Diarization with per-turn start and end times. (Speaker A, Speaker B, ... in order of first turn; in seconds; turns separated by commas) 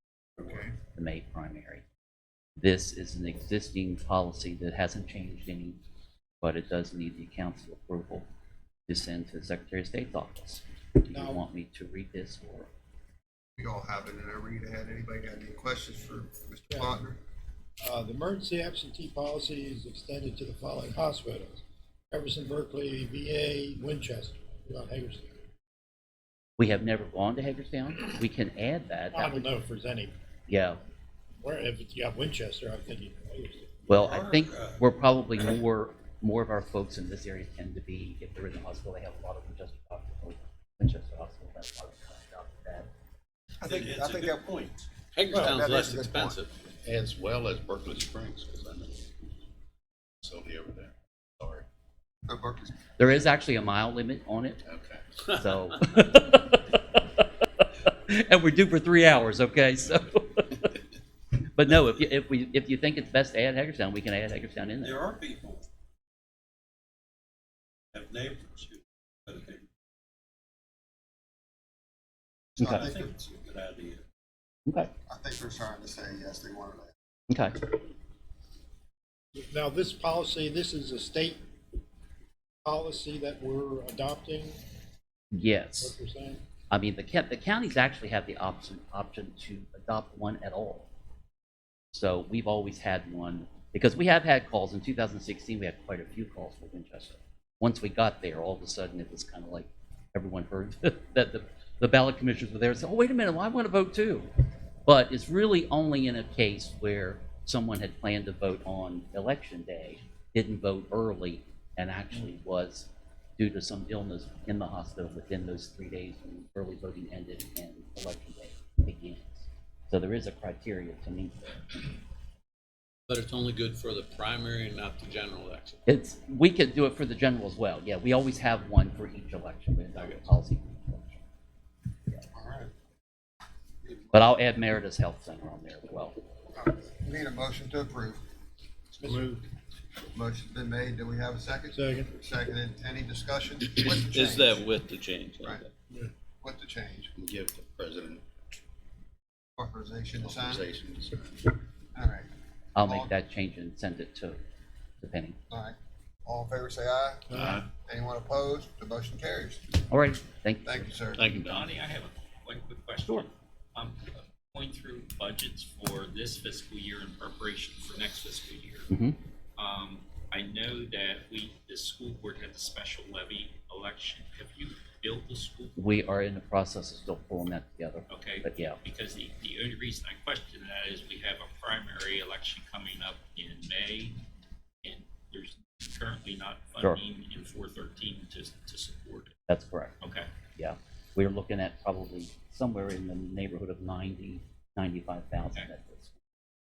Speaker A: 0.4-0.7, Speaker B: 0.9-1.8, Speaker B: 2.6-5.8, Speaker B: 6.4-8.3, Speaker B: 8.9-12.7, Speaker C: 11.1-11.4, Speaker A: 13.6-17.2, Speaker C: 16.7-17.0, Speaker C: 17.8-25.4, Speaker B: 26.6-29.5, Speaker C: 29.1-30.1, Speaker B: 30.5-30.8, Speaker C: 31.4-33.8, Speaker B: 33.9-42.9, Speaker D: 34.0-34.8, Speaker A: 43.6-44.8, Speaker D: 43.6-46.5, Speaker A: 45.3-46.4, Speaker E: 46.8-49.1, Speaker E: 50.2-51.7, Speaker A: 52.3-52.9, Speaker B: 53.0-54.6, Speaker E: 54.7-55.0, Speaker B: 55.3-57.2, Speaker B: 57.9-60.8, Speaker B: 61.4-65.0, Speaker D: 64.8-65.7, Speaker D: 67.9-69.7, Speaker A: 72.6-73.2, Speaker D: 72.7-74.0, Speaker A: 75.1-77.0, Speaker B: 77.3-77.7, Speaker C: 79.3-81.4, Speaker C: 82.6-84.6, Speaker B: 85.3-86.0, Speaker C: 85.8-86.4, Speaker B: 86.7-90.9, Speaker B: 91.9-104.3, Speaker B: 104.9-121.8, Speaker D: 123.1-125.8, Speaker B: 125.9-131.2, Speaker A: 132.3-132.7, Speaker A: 133.8-134.3, Speaker B: 134.1-136.2, Speaker A: 136.5-138.2, Speaker C: 139.0-139.4, Speaker A: 140.1-144.7, Speaker C: 141.7-142.1, Speaker D: 143.7-145.7, Speaker A: 146.4-147.1, Speaker E: 147.2-148.2, Speaker A: 149.6-150.7, Speaker E: 150.2-151.5, Speaker A: 151.9-152.3, Speaker B: 152.8-154.4, Speaker A: 152.8-153.1, Speaker B: 155.0-155.4, Speaker A: 155.5-159.7, Speaker E: 157.3-157.7, Speaker B: 159.9-160.9, Speaker A: 160.7-161.3, Speaker E: 161.2-161.8, Speaker F: 161.2-168.9, Speaker B: 168.9-169.2, Speaker F: 169.6-176.0, Speaker B: 175.8-178.8, Speaker F: 178.1-184.2, Speaker F: 184.8-189.4, Speaker B: 189.5-190.0, Speaker F: 190.0-190.3, Speaker B: 190.6-196.2